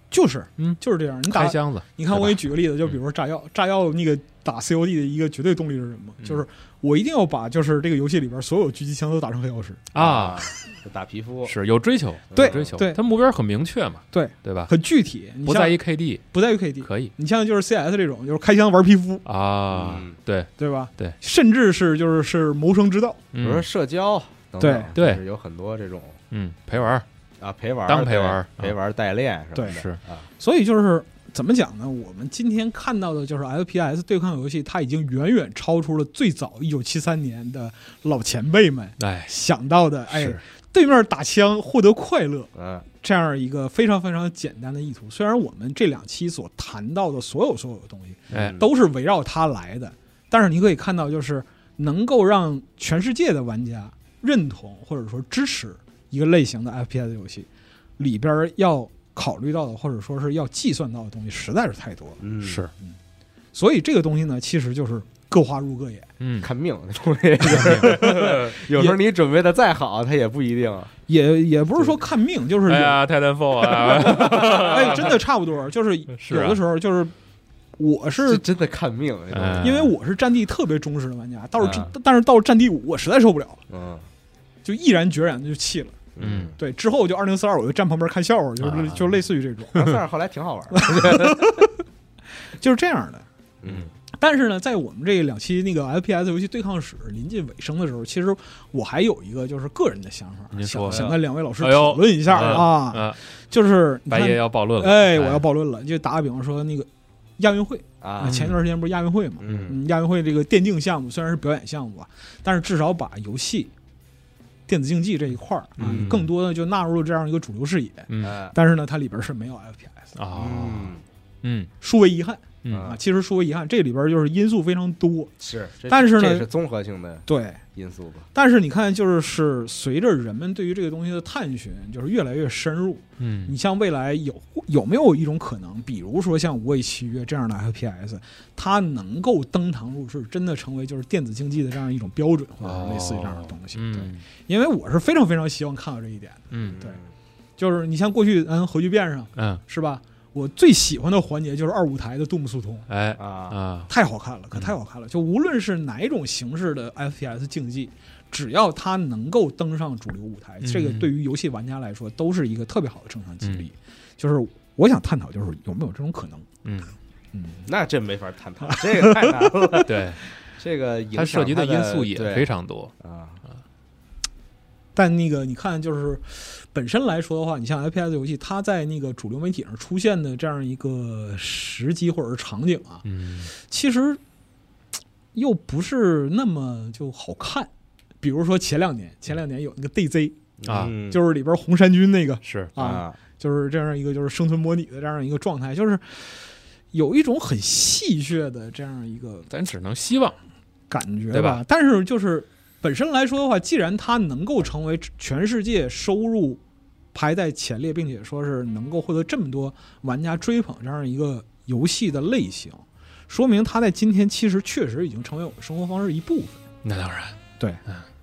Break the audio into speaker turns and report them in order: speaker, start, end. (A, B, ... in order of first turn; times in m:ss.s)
0:00.1-0:09.9 A
0:00.6-0:03.0 B
0:09.9-0:10.5 B
0:10.0-0:11.6 C
0:11.4-0:14.7 B
0:12.3-0:12.7 C
0:12.3-0:13.0 A
0:14.1-0:15.8 A
0:15.5-0:16.3 B
0:16.3-0:19.2 A
0:16.8-0:17.1 B
0:19.2-0:21.2 B
0:19.7-0:20.2 C
0:20.6-0:23.2 A
0:23.3-0:23.7 B
0:23.4-0:26.2 C
0:24.6-0:24.9 A
0:25.0-0:25.2 B
0:26.3-0:27.0 B
0:27.4-0:30.3 C
0:27.9-0:28.8 B
0:29.6-0:29.8 A
0:29.7-0:30.0 B
0:30.4-0:57.5 A
0:39.0-0:39.3 B
0:40.1-0:40.4 B
0:42.6-0:42.9 C
0:48.3-0:48.6 B
0:48.3-0:48.7 C
0:58.0-1:02.2 A
1:02.2-1:02.6 C
1:02.4-1:02.7 B
1:03.5-1:06.1 A
1:06.2-1:06.5 B
1:06.4-1:10.9 C
1:07.5-1:08.5 B
1:11.1-1:13.0 A
1:12.7-1:15.2 B
1:13.8-1:14.7 C
1:14.0-1:17.1 A
1:16.1-1:16.6 B
1:17.8-1:18.4 A
1:18.2-1:19.8 C
1:19.3-1:19.9 B
1:19.6-1:23.6 A
1:21.6-1:21.9 C
1:23.7-1:24.1 C
1:24.6-1:26.0 A
1:26.2-1:26.6 C
1:26.2-1:26.5 B
1:26.6-1:29.9 A
1:28.6-1:29.2 B
1:29.7-1:31.6 C
1:30.7-1:31.8 A
1:32.6-1:33.3 A
1:33.6-1:33.9 C
1:34.1-1:53.7 A
1:40.5-1:43.2 B
1:42.4-1:42.6 C
1:44.1-1:45.5 B
1:48.0-1:48.5 C
1:48.2-1:48.6 B
1:49.4-1:49.8 C
1:54.7-2:00.1 A
1:55.8-1:56.3 B
1:55.8-1:56.2 C
1:58.1-1:58.4 B
1:58.2-1:58.5 C
2:00.2-2:01.7 B
2:00.3-2:01.0 C
2:01.8-2:05.3 A
2:02.6-2:02.9 B
2:02.7-2:03.0 C
2:05.4-2:08.3 C
2:05.9-2:06.5 A
2:07.3-2:07.6 A
2:08.3-2:27.0 A
2:13.2-2:13.6 B
2:22.6-2:24.2 B
2:26.5-2:26.8 B
2:26.6-2:27.1 C
2:27.6-2:32.9 A
2:29.4-2:29.6 B
2:32.9-2:33.9 B
2:33.2-2:33.6 C
2:33.9-2:46.5 A
2:40.6-2:41.1 B
2:43.4-2:43.7 B
2:46.6-2:46.9 B
2:47.3-2:47.6 A
2:47.6-2:49.9 C
2:48.7-2:49.9 A
2:49.9-2:50.2 B
2:50.6-2:53.4 C
2:51.1-2:52.9 B
2:55.0-3:04.2 A
3:03.0-3:03.5 B
3:05.3-3:07.7 A
3:08.2-3:10.4 A
3:10.6-3:11.2 C
3:10.7-3:11.0 B
3:11.0-3:19.5 A
3:12.4-3:12.7 B
3:12.8-3:13.2 C
3:19.5-3:20.4 B
3:20.9-3:26.6 A
3:21.3-3:21.6 B
3:27.1-3:36.6 A
3:36.8-3:38.1 B